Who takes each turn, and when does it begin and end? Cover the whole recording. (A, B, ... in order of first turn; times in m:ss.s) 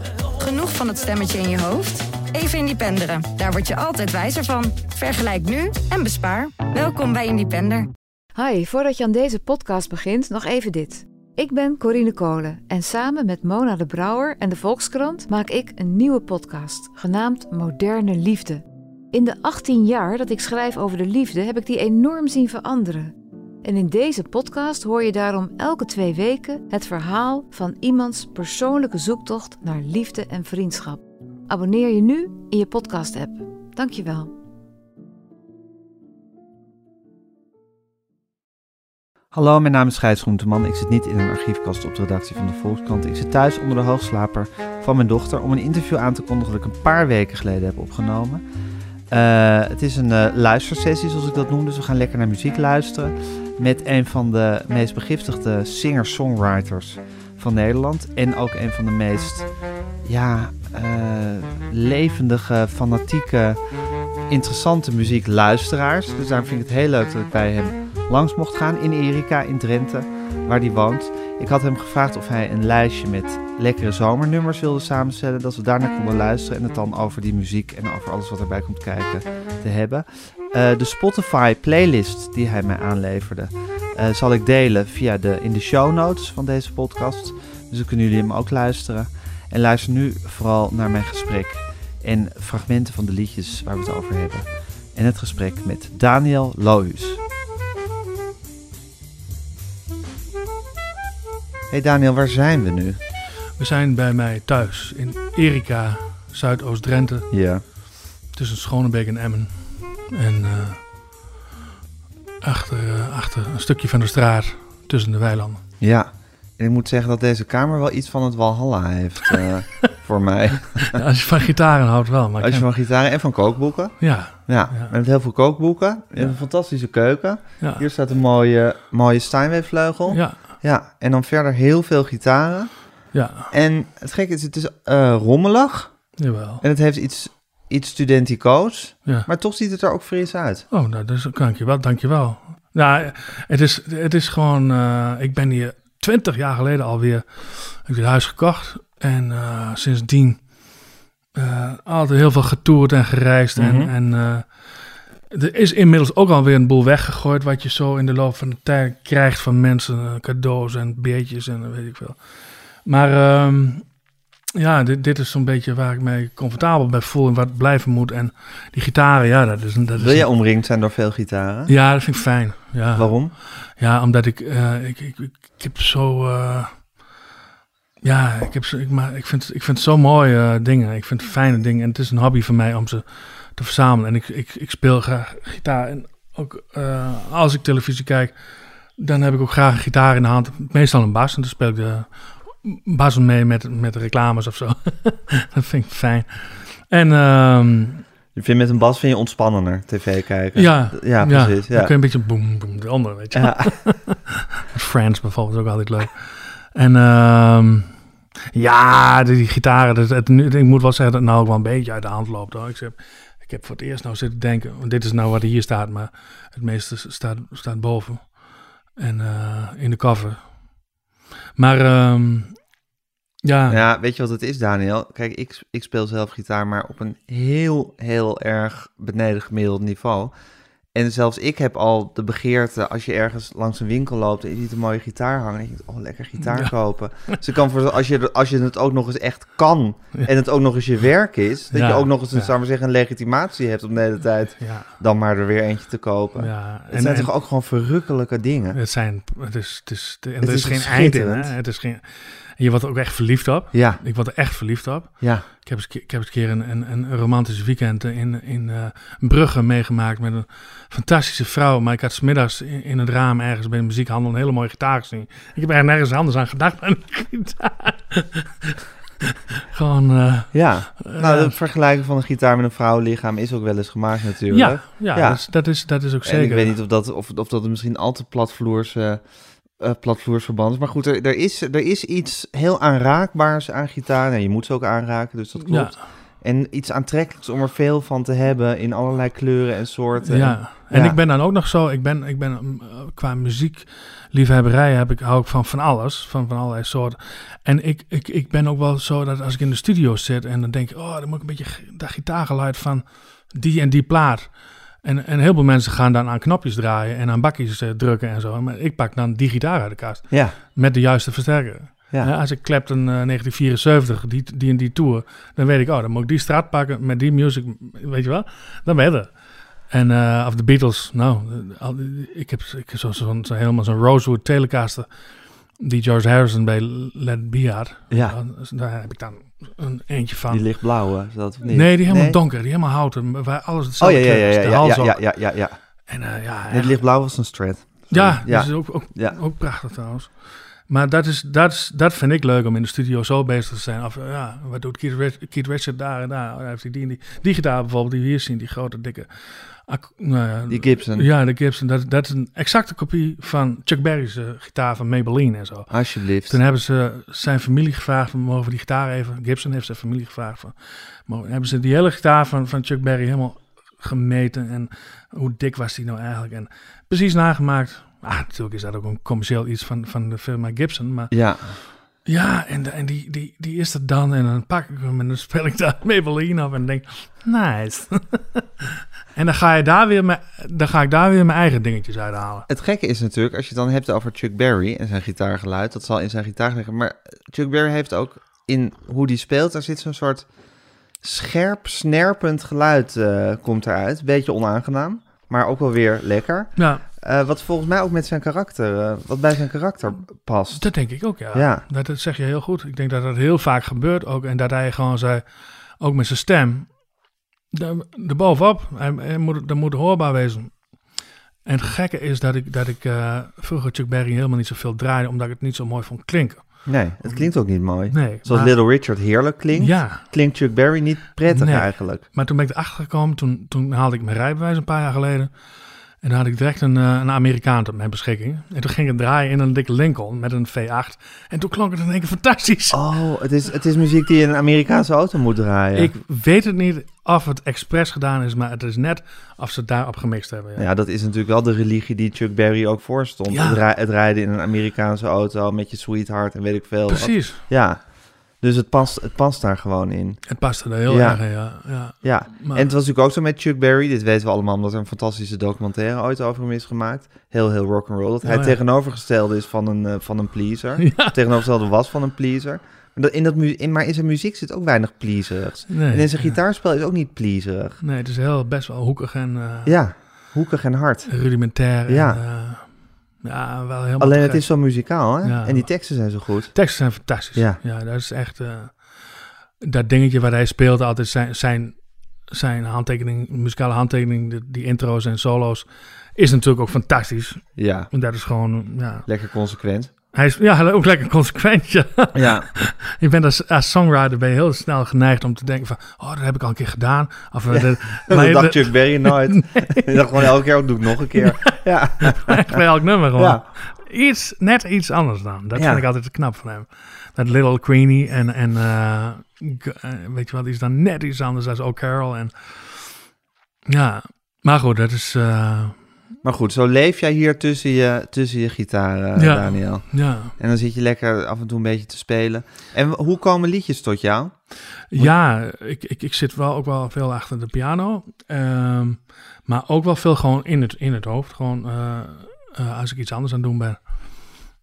0:00.4-0:07.9 A
0:08.4-0:23.1 B
0:23.6-0:34.3 B
0:39.3-0:48.4 C
0:49.1-1:03.6 C
1:04.2-1:37.2 C
1:41.7-1:43.0 C
1:43.6-1:47.3 D
1:47.3-1:47.6 C
1:48.3-1:50.9 D
1:52.4-1:55.6 D
1:55.8-2:01.0 C
2:00.9-2:02.7 D
2:02.4-2:20.7 C
2:04.0-2:05.0 D
2:07.6-2:07.9 D
2:10.1-2:10.5 D
2:13.1-2:13.5 D
2:16.2-2:16.6 D
2:20.7-2:30.8 D
2:31.3-2:43.9 D
2:33.6-2:33.9 C
2:44.5-2:50.3 D
2:50.0-2:51.7 C
2:51.7-2:57.0 D
2:52.9-2:53.3 C
2:58.0-3:08.4 D
3:08.9-3:18.0 D
3:18.3-3:21.9 C
3:20.6-3:28.0 D
3:23.3-3:23.7 C
3:28.5-3:38.4 D
3:39.0-3:40.7 D
3:41.6-3:42.6 D
3:43.4-3:43.8 D
3:43.7-3:50.3 C
3:50.9-4:08.8 C
3:56.4-3:56.7 D
4:01.7-4:02.5 D
4:04.6-4:04.9 D
4:06.4-4:07.3 D
4:08.7-4:28.5 D
4:10.4-4:11.5 C
4:13.7-4:14.0 C
4:15.2-4:15.4 C
4:29.7-4:31.6 D
4:30.5-4:51.2 C
4:34.5-4:36.8 D
4:45.6-4:46.1 D
4:50.2-5:30.7 D
5:10.3-5:10.6 C
5:28.1-5:28.4 C
5:30.5-5:32.4 C
5:31.7-5:35.3 D
5:34.0-5:35.8 C
5:36.0-5:37.0 D
5:36.7-5:39.4 C
5:38.1-6:11.3 D
5:50.7-5:51.3 C
5:55.9-5:56.6 C
6:11.3-6:11.9 C
6:12.2-6:18.7 D
6:19.3-6:22.7 D
6:22.7-6:30.5 C
6:31.1-6:41.8 C
6:36.8-6:37.0 D
6:40.7-6:47.1 D
6:47.7-6:51.1 D
6:51.6-7:00.3 D
6:56.8-7:02.2 C
7:01.5-7:13.0 D
7:12.9-7:16.1 C
7:15.9-7:20.9 D
7:20.8-7:48.0 C
7:23.5-7:23.8 D
7:27.1-7:27.6 D
7:30.5-7:32.9 D
7:38.4-7:38.8 D
7:41.0-7:41.4 D
7:45.9-7:46.6 D
7:48.0-7:50.4 D
7:49.8-7:52.4 C
7:51.3-8:09.3 D
7:54.2-7:57.8 C
8:07.8-8:08.1 C
8:09.2-8:10.1 C
8:10.3-8:20.5 D
8:12.3-8:12.7 C
8:17.7-8:22.8 C
8:21.3-8:33.2 D
8:23.4-8:23.6 C
8:25.7-8:26.0 C
8:33.9-8:36.1 D
8:36.4-8:45.3 C
8:39.4-8:40.5 D
8:45.1-8:54.5 D